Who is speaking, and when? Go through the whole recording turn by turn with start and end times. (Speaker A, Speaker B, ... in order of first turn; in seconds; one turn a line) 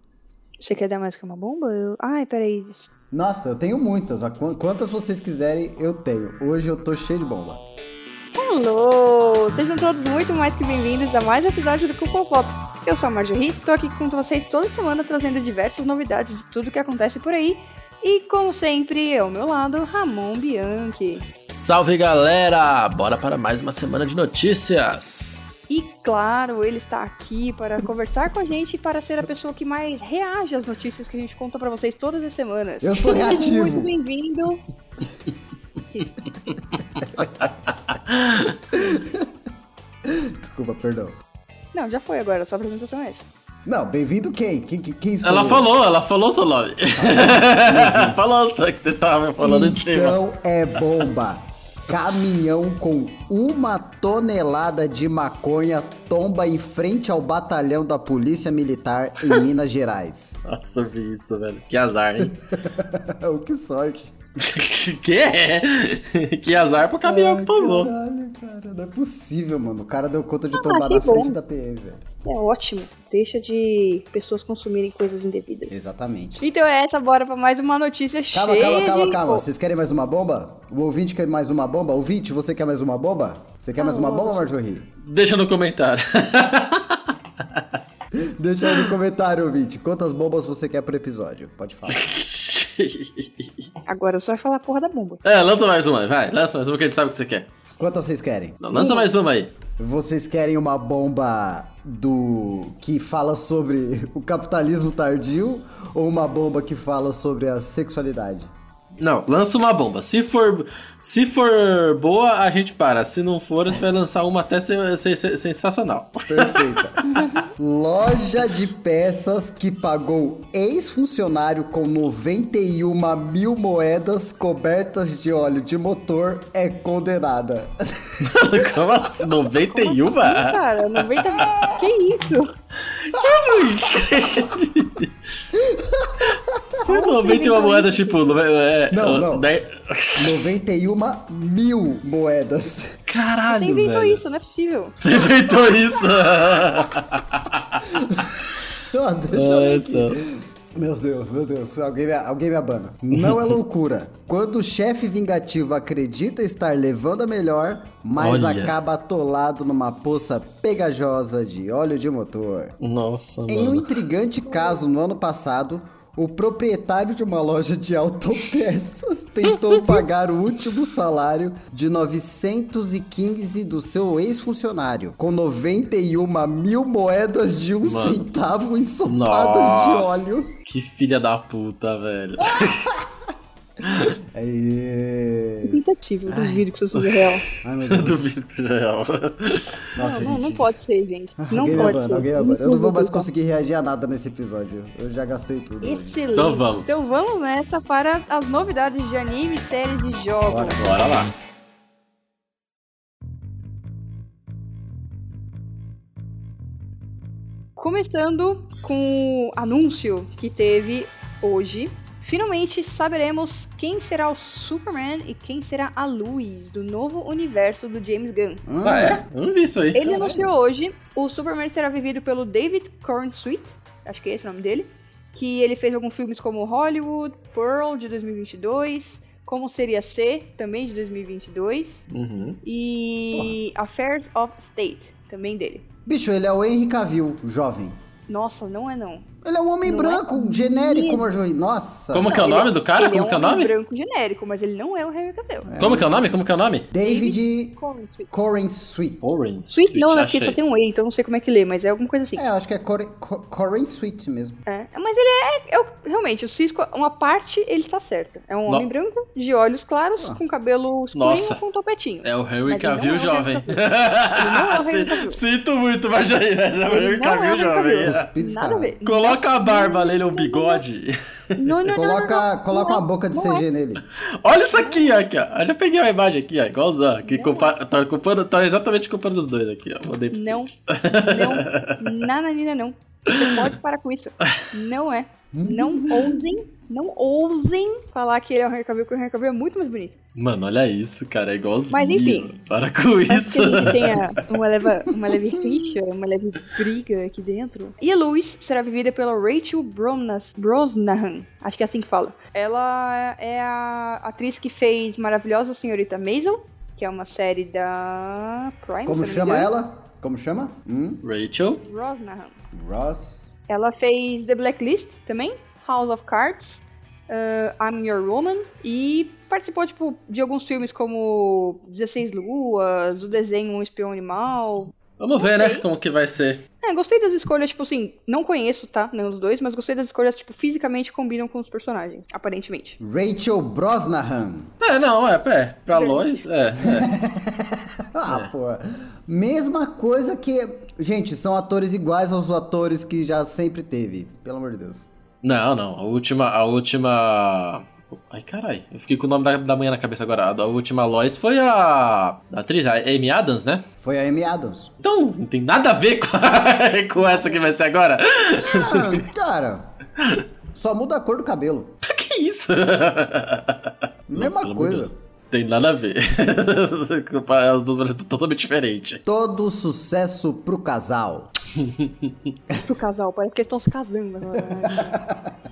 Speaker A: 0.6-2.9
Speaker B: 3.1-7.6
Speaker A: 8.3-21.2
Speaker C: 21.5-25.6
Speaker A: 25.7-34.6
Speaker B: 32.8-33.9
Speaker A: 35.9-36.2
Speaker C: 37.0-38.6
Speaker B: 38.7-39.3
Speaker B: 40.0-41.1
Speaker A: 41.7-43.2
Speaker B: 43.6-45.6
Speaker C: 45.2-50.2
Speaker B: 47.0-48.2
Speaker B: 49.4-60.4
Speaker C: 60.4-62.3
Speaker B: 62.2-64.1
Speaker C: 64.4-67.9
Speaker B: 67.0-72.0
Speaker A: 70.5-71.3
Speaker A: 72.2-75.8
Speaker B: 75.7-76.5
Speaker A: 76.4-79.4
Speaker B: 78.3-84.9
Speaker A: 83.8-84.5
Speaker C: 85.0-87.8
Speaker B: 88.1-92.0
Speaker C: 88.6-88.9
Speaker C: 91.9-93.7
Speaker A: 93.9-95.2
Speaker C: 95.2-97.5
Speaker B: 97.8-98.6
Speaker C: 98.6-99.5
Speaker A: 98.7-99.0
Speaker B: 99.8-108.5
Speaker C: 109.0-117.0
Speaker B: 116.3-128.3
Speaker C: 128.2-131.4
Speaker A: 129.7-132.5
Speaker C: 132.9-135.1
Speaker B: 135.5-136.8
Speaker A: 136.8-138.4
Speaker C: 136.9-140.3
Speaker B: 138.9-139.5
Speaker B: 140.2-143.0
Speaker C: 143.1-144.2
Speaker A: 143.5-145.0
Speaker C: 145.0-148.2
Speaker B: 147.8-162.8
Speaker C: 149.3-150.2
Speaker C: 153.1-153.5
Speaker C: 158.2-158.7
Speaker C: 162.8-164.0
Speaker B: 163.5-180.6
Speaker A: 164.5-164.8
Speaker C: 169.4-170.0
Speaker C: 177.8-178.2
Speaker C: 179.1-182.9
Speaker B: 182.4-183.1
Speaker C: 183.8-184.1
Speaker B: 184.0-186.7
Speaker A: 185.6-187.4
Speaker C: 186.9-189.8
Speaker B: 187.6-188.2
Speaker B: 189.9-190.7
Speaker A: 190.0-193.2
Speaker B: 191.4-196.2
Speaker C: 191.7-192.2
Speaker A: 195.8-200.8
Speaker C: 196.3-196.9
Speaker B: 200.5-200.9
Speaker C: 200.8-201.3
Speaker A: 207.8-218.6
Speaker B: 218.7-219.2
Speaker C: 218.8-220.1
Speaker A: 219.9-232.0
Speaker B: 220.0-220.5
Speaker C: 232.1-232.6
Speaker A: 232.6-235.8
Speaker B: 233.3-233.6
Speaker B: 236.1-238.0
Speaker A: 238.3-239.3
Speaker B: 239.4-242.3
Speaker A: 239.8-241.2
Speaker C: 242.1-243.7
Speaker A: 242.2-245.7
Speaker B: 245.7-246.2
Speaker C: 245.8-246.9
Speaker B: 246.9-247.8
Speaker A: 247.0-248.3
Speaker B: 248.3-249.2
Speaker C: 249.2-250.6
Speaker A: 249.7-252.4
Speaker B: 252.3-254.6
Speaker A: 254.7-265.4
Speaker C: 261.1-261.6
Speaker C: 262.2-268.2
Speaker A: 266.9-270.8
Speaker B: 268.1-268.9
Speaker C: 269.0-271.8
Speaker A: 271.6-273.6
Speaker B: 271.9-274.0
Speaker C: 274.2-282.1
Speaker A: 274.7-275.2
Speaker A: 277.2-277.8
Speaker A: 280.3-290.2
Speaker C: 283.3-283.7
Speaker C: 284.4-284.7
Speaker B: 285.5-286.4
Speaker C: 290.4-294.6
Speaker A: 291.9-292.5
Speaker A: 293.3-309.7
Speaker B: 309.1-311.2
Speaker C: 311.2-311.8
Speaker A: 311.8-312.5
Speaker B: 312.7-313.4
Speaker A: 313.7-325.8
Speaker C: 325.2-326.6
Speaker A: 326.8-333.0
Speaker B: 333.0-334.7
Speaker C: 334.8-337.1
Speaker A: 335.9-336.4
Speaker B: 336.8-345.1
Speaker C: 345.4-353.8
Speaker B: 354.0-354.9
Speaker C: 355.0-359.2
Speaker B: 358.5-359.9
Speaker C: 360.2-360.4
Speaker B: 360.7-361.9
Speaker C: 362.0-369.2
Speaker B: 364.3-365.1
Speaker B: 369.2-371.5
Speaker C: 371.8-372.5
Speaker A: 372.8-375.2
Speaker B: 374.8-375.5